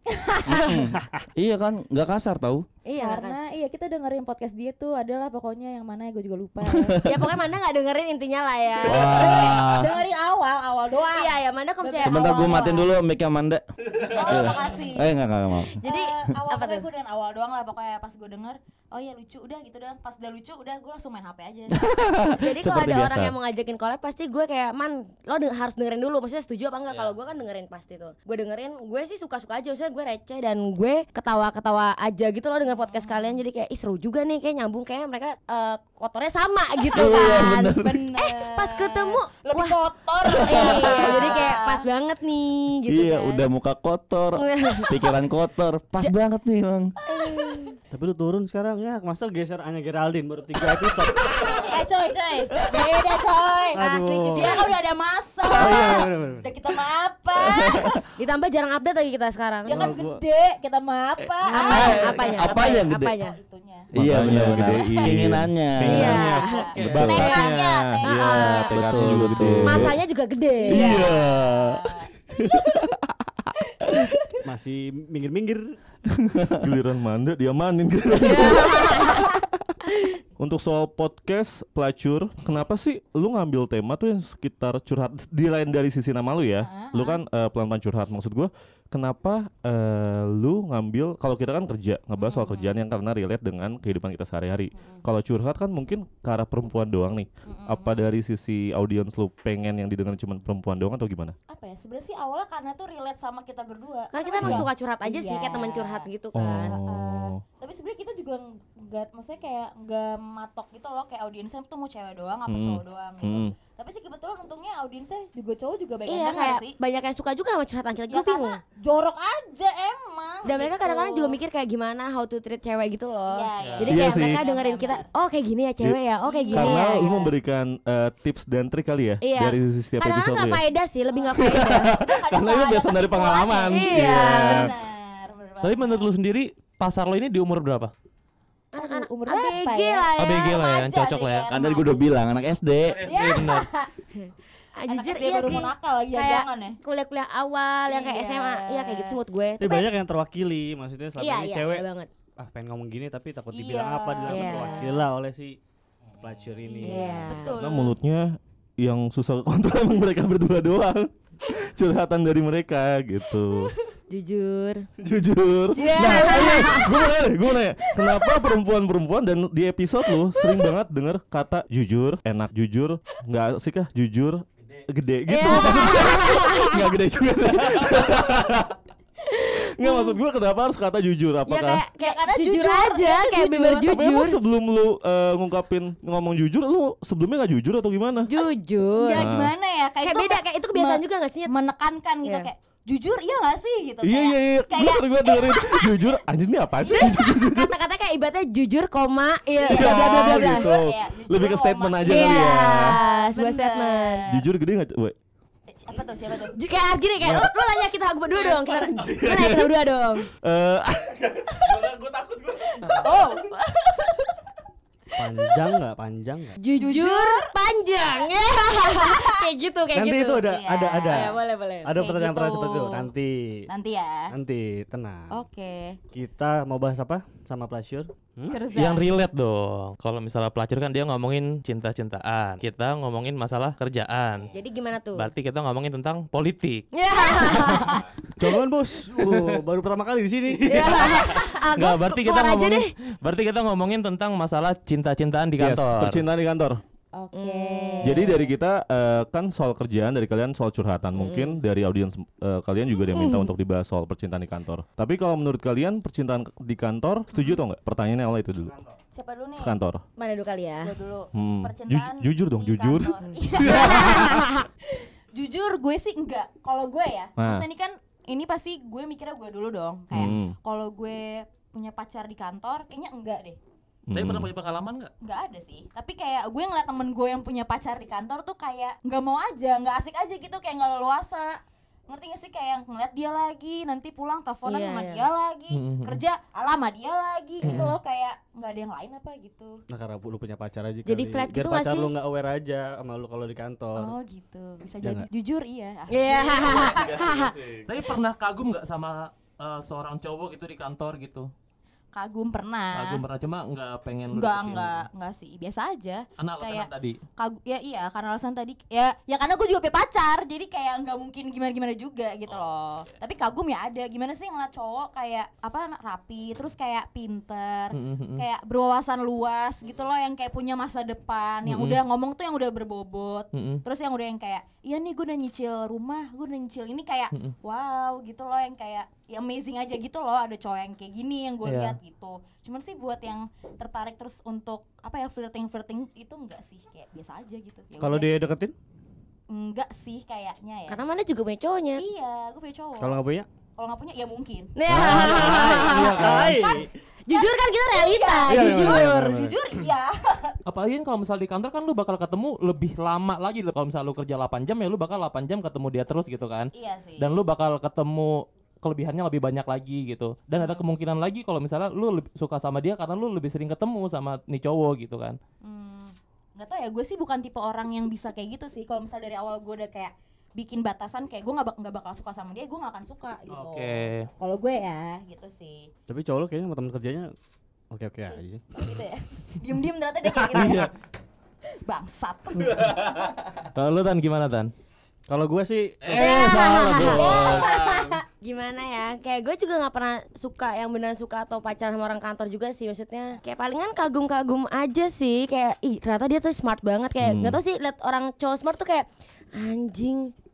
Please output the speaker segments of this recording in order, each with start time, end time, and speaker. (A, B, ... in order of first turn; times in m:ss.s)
0:00.1-0:00.6 A
0:00.5-0:02.7 B
0:00.5-0:00.8 C
0:02.8-0:03.4 C
0:03.0-0:07.0 A
0:06.7-0:07.1 B
0:07.0-0:09.5 C
0:08.8-0:09.9 B
0:08.8-0:12.8 A
0:11.1-0:12.9 C
0:12.0-0:13.6 B
0:14.1-0:15.1 A
0:14.2-0:15.8 B
0:15.7-0:16.9 C
0:15.8-0:21.8 A
0:21.8-0:23.3 B
0:22.4-0:39.8 C
0:26.9-0:27.2 D
0:32.8-0:33.3 A
0:36.9-0:38.0 B
0:37.0-0:41.8 A
0:40.4-0:43.4 C
0:40.8-0:41.4 B
0:42.9-0:46.9 B
0:44.4-0:45.0 C
0:47.0-0:47.7 A
0:47.1-0:47.8 C
0:47.9-0:51.3 E
0:51.3-0:53.8 A
0:53.7-0:54.7 E
0:53.8-0:54.7 C
0:54.3-0:58.0 A
0:55.5-0:56.5 E
0:55.7-0:56.0 C
0:57.5-0:58.0 B
0:58.2-0:59.9 C
0:59.6-1:03.9 A
0:59.7-1:00.2 E
1:01.5-1:03.4 C
1:01.6-1:03.1 B
1:03.9-1:10.0 F
1:03.9-1:06.2 B
1:04.4-1:05.0 A
1:05.8-1:07.4 C
1:06.0-1:09.5 A
1:06.5-1:07.2 D
1:08.0-1:08.8 C
1:08.7-1:09.9 B
1:09.6-1:11.2 C
1:10.7-1:12.8 A
1:10.7-1:11.8 F
1:12.4-1:12.9 F
1:13.6-1:14.4 A
1:14.4-1:15.8 E
1:16.6-1:19.3 F
1:18.2-1:19.3 C
1:20.4-1:41.4 F
1:26.6-1:27.2 A
1:32.2-1:32.8 A
1:34.8-1:35.0 A
1:37.5-1:38.1 A
1:41.5-1:46.1 A
1:44.1-1:46.8 C
1:44.4-1:44.7 F
1:46.3-1:47.4 F
1:46.8-1:56.7 A
1:52.5-1:53.5 F
1:56.1-1:58.6 C
1:58.1-2:01.4 A
2:00.4-2:07.3 C
2:03.3-2:05.1 A
2:03.6-2:03.9 D
2:03.9-2:04.4 F
2:06.2-2:07.3 A
2:06.5-2:10.6 F
2:09.2-2:11.9 C
2:11.1-2:16.1 A
2:11.3-2:14.7 F
2:13.7-2:14.6 C
2:15.6-2:17.9 D
2:18.7-2:20.9 C
2:18.8-2:20.1 A
2:20.2-2:21.5 D
2:20.8-2:22.1 A
2:21.5-2:23.1 B
2:22.9-2:23.7 D
2:23.0-2:23.9 A
2:24.2-2:29.9 C
2:24.9-2:26.8 A
2:27.9-2:29.2 A
2:29.6-2:31.9 E
2:31.2-2:32.1 C
2:32.4-2:35.6 E
2:33.5-2:35.0 A
2:34.3-2:34.9 C
2:36.2-2:37.3 E
2:36.6-2:38.0 A
2:36.8-2:37.5 C
2:37.5-2:43.7 F
2:44.1-2:44.9 C
2:45.0-2:58.8 F
2:45.8-2:47.1 C
2:45.8-2:47.0 A
2:55.3-2:57.0 C
2:55.6-2:55.9 A
2:58.1-2:58.4 C
2:59.3-3:00.2 C
2:59.6-3:01.8 F
3:01.5-3:04.4 C
3:02.0-3:04.0 A
3:03.8-3:08.3 F
3:08.3-3:09.2 C
3:09.0-3:16.2 A
3:09.1-3:09.5 F
3:10.0-3:11.5 C
3:14.0-3:17.8 F
3:16.9-3:20.6 C
3:19.6-3:24.3 A
3:19.7-3:23.0 F
3:22.0-3:24.3 C
3:24.3-3:25.2 F
3:25.7-3:26.6 A
3:26.5-3:30.3 C
3:27.2-3:27.6 F
3:29.0-3:29.7 F
3:30.4-3:32.9 F
3:32.8-3:33.1 C
3:33.0-3:34.3 A
3:35.2-3:36.6 E
3:35.2-3:35.6 C
3:36.6-3:41.9 C
3:36.7-3:37.5 A
3:38.7-3:39.5 A
3:39.9-3:43.7 E
3:40.5-3:41.4 A
3:42.0-3:43.1 A
3:43.7-3:44.3 A
3:44.3-3:45.3 E
3:45.3-3:46.0 A
3:46.1-3:48.6 E
3:48.5-3:49.1 A
3:48.7-3:54.5 D
3:54.5-3:55.3 C
3:55.2-3:57.8 D
3:56.9-3:58.1 C
3:58.4-4:01.1 E
4:00.6-4:06.2 D
4:00.7-4:02.9 C
4:05.6-4:06.8 F
4:07.1-4:08.5 A
4:07.4-4:08.4 C
4:08.0-4:18.8 F
4:11.1-4:11.6 C
4:13.1-4:13.5 C
4:17.3-4:17.6 A
4:19.1-4:19.8 A
4:19.6-4:20.0 F
4:20.2-4:21.0 C
4:20.8-4:24.4 A
4:21.3-4:24.4 F
4:23.7-4:24.7 C
4:25.0-4:33.6 A
4:27.4-4:27.7 F
4:30.1-4:30.6 F
4:34.1-4:34.5 F
4:34.1-4:35.1 D
4:35.2-4:49.8 A
4:44.7-4:45.3 C
4:45.7-4:46.2 D
4:47.6-4:47.9 D
4:49.9-4:54.2 E
4:51.1-4:52.1 C
4:54.0-4:57.1 A
4:55.0-4:55.3 E
4:56.1-4:57.6 C
4:56.7-4:57.9 F
4:57.9-5:01.5 D
5:02.1-5:03.2 A
5:02.9-5:05.1 D
5:04.3-5:38.3 A
5:06.4-5:07.2 D
5:17.9-5:18.4 D
5:21.7-5:22.0 D
5:23.5-5:23.8 D
5:31.6-5:32.0 D
5:38.0-5:38.8 E
5:39.5-5:41.0 A
5:40.9-5:42.0 C
5:42.0-5:43.2 A
5:43.0-5:43.5 E
5:43.8-5:44.7 A
5:44.8-5:49.3 C
5:44.9-5:46.5 B
5:45.1-5:46.9 E
5:47.3-5:50.6 A
5:48.5-5:49.6 E
5:50.6-6:05.4 D
5:56.7-5:57.4 A
6:00.6-6:00.9 A
6:05.6-6:15.9 A
6:13.5-6:14.3 D
6:16.1-6:17.3 E
6:17.9-6:18.9 E
6:18.3-6:20.8 A
6:20.6-6:20.9 D
6:21.8-6:23.0 A
6:22.6-6:24.7 D
6:25.3-6:26.1 E
6:26.1-6:40.3 C
6:26.1-6:26.4 D
6:26.1-6:28.0 F
6:27.0-6:27.5 D
6:27.1-6:27.8 A
6:37.2-6:37.6 F